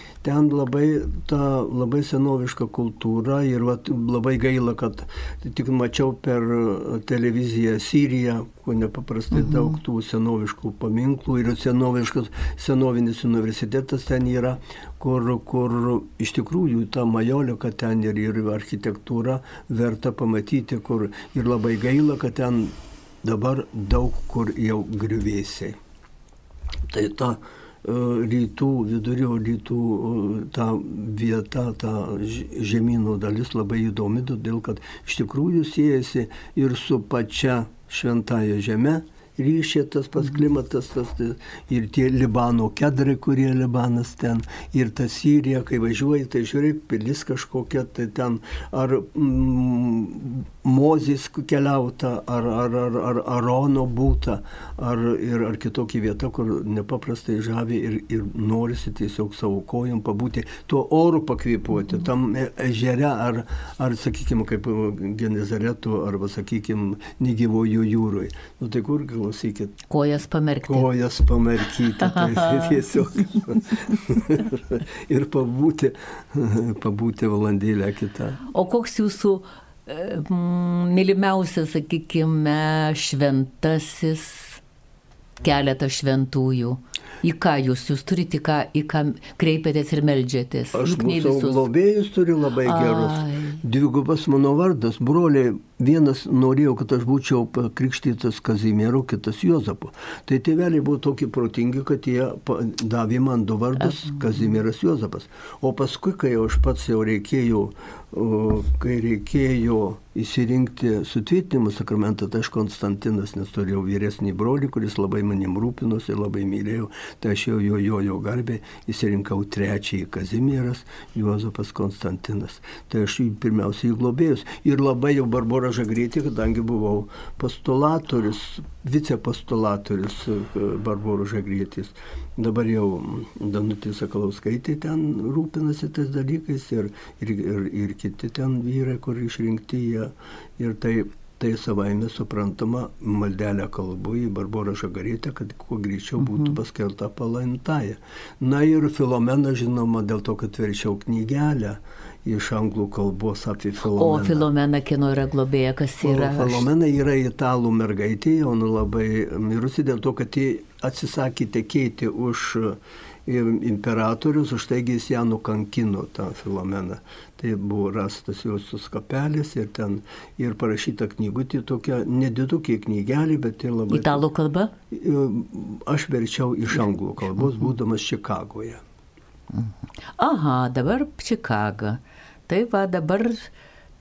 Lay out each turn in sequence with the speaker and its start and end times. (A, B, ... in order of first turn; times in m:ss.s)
0:00.2-0:25.8 A
0:09.3-0:09.8 B
0:26.9-1:09.8 A
1:09.9-1:10.9 B
1:10.6-1:18.4 A
1:12.0-1:12.8 B
1:18.5-1:24.6 B
1:25.4-1:31.7 B
1:30.7-2:34.5 A
1:32.6-1:33.6 B
2:26.2-2:26.6 B
2:33.9-2:36.7 B
2:36.0-2:54.2 A
2:53.9-2:54.7 B
2:54.9-2:58.8 A
2:59.5-3:03.5 B